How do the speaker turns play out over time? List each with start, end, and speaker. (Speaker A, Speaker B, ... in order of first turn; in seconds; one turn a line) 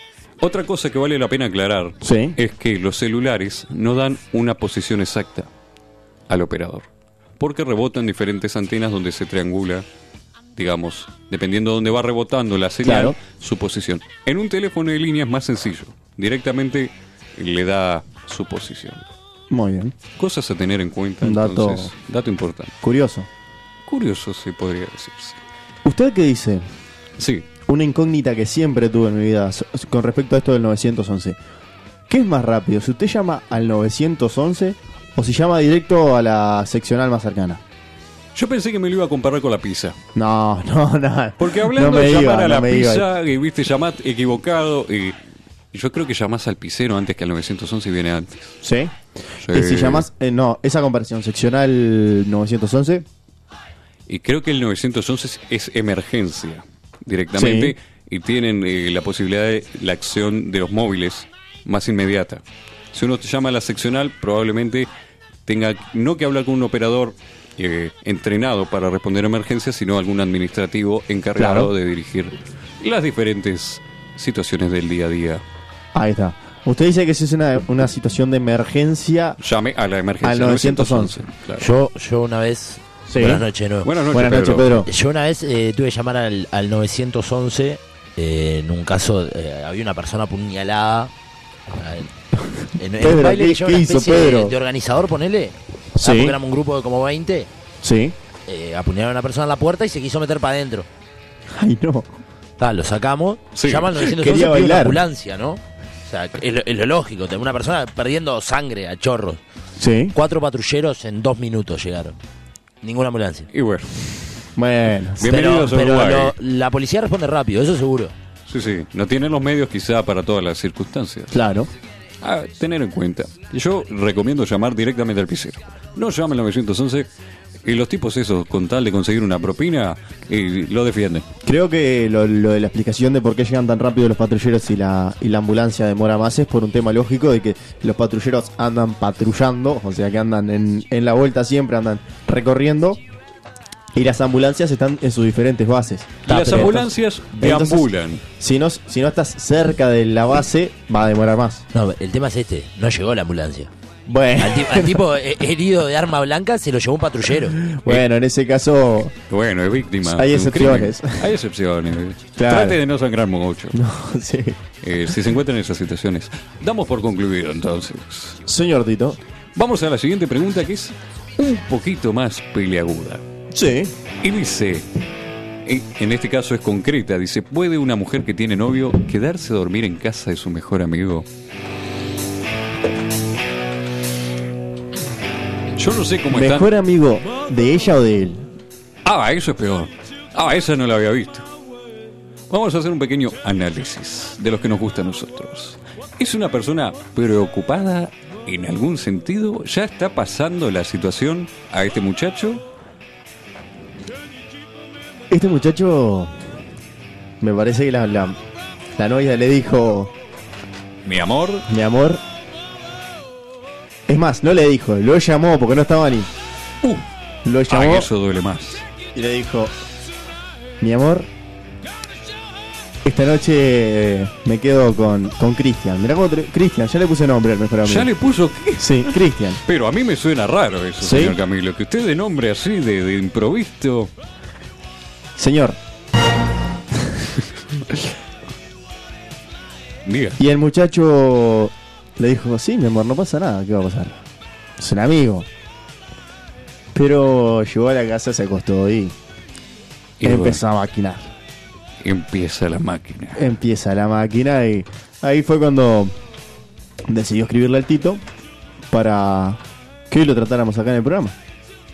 Speaker A: 0.4-5.5
Speaker B: 2.0-2.4
Speaker A: 6.3-6.9
Speaker A: 7.4-9.8
Speaker A: 10.6-19.0
Speaker B: 12.8-13.2
Speaker B: 19.5-20.0
Speaker A: 20.1-22.7
Speaker B: 21.2-21.9
Speaker B: 22.8-23.3
Speaker A: 23.9-25.4
Speaker B: 25.8-26.6
Speaker A: 27.2-27.5
Speaker B: 27.7-31.4
Speaker B: 32.1-37.6
Speaker A: 38.3-40.0
Speaker B: 40.1-43.1
Speaker A: 41.4-45.2
Speaker A: 45.7-48.6
Speaker B: 48.6-48.9
Speaker A: 49.4-50.0
Speaker B: 49.5-53.0
Speaker A: 54.1-64.9
Speaker B: 57.3-57.7
Speaker A: 65.5-75.4
Speaker B: 71.3-71.7
Speaker B: 75.9-79.4
Speaker A: 79.4-81.7
Speaker B: 80.2-81.2
Speaker C: 81.6-83.9
Speaker B: 83.1-83.4
Speaker A: 83.8-84.7
Speaker B: 84.1-84.9
Speaker C: 84.8-91.1
Speaker C: 91.7-92.1
Speaker C: 92.7-97.5
Speaker B: 93.0-94.5
Speaker B: 96.0-96.4
Speaker B: 97.8-98.1
Speaker C: 98.5-100.9
Speaker B: 101.5-102.1
Speaker C: 102.6-109.4
Speaker A: 103.5-103.9
Speaker B: 104.0-105.0
Speaker B: 109.8-110.1
Speaker C: 110.1-112.2
Speaker C: 112.8-113.5
Speaker A: 113.5-114.1
Speaker B: 114.6-115.2
Speaker A: 115.2-116.3
Speaker C: 115.2-118.1
Speaker A: 118.5-121.3
Speaker B: 121.3-121.7
Speaker A: 122.2-127.1
Speaker A: 127.6-131.2
Speaker B: 131.4-143.0
Speaker B: 143.9-151.6
Speaker C: 146.2-146.8
Speaker A: 146.2-148.2
Speaker C: 151.7-153.7
Speaker B: 154.1-155.0
Speaker C: 154.4-157.6
Speaker B: 157.6-159.1
Speaker A: 159.3-163.8
Speaker B: 160.0-161.3
Speaker B: 162.4-162.8
Speaker B: 163.7-164.6
Speaker A: 164.8-168.4
Speaker B: 168.4-169.2
Speaker A: 169.6-173.2
Speaker B: 173.5-173.9
Speaker A: 174.2-174.8
Speaker A: 175.7-181.3
Speaker A: 185.8-186.7
Speaker B: 186.3-188.5
Speaker A: 189.0-191.4
Speaker A: 192.5-202.6
Speaker B: 205.3-206.3
Speaker B: 207.4-208.4
Speaker B: 209.0-210.1
Speaker A: 211.0-211.7
Speaker B: 211.7-212.2
Speaker B: 214.1-216.3
Speaker B: 217.4-218.1
Speaker A: 217.7-218.8
Speaker B: 219.1-219.7
Speaker B: 220.8-221.3
Speaker B: 223.0-228.1
Speaker A: 227.8-234.1
Speaker B: 228.8-229.6
Speaker B: 231.0-231.4
Speaker B: 235.3-235.8
Speaker A: 240.0-240.4
Speaker B: 240.4-244.2
Speaker B: 244.8-245.5
Speaker B: 246.9-249.1
Speaker A: 250.2-250.6
Speaker B: 250.2-251.3
Speaker A: 252.0-253.4
Speaker B: 253.3-256.1
Speaker B: 257.1-258.2
Speaker B: 258.9-261.3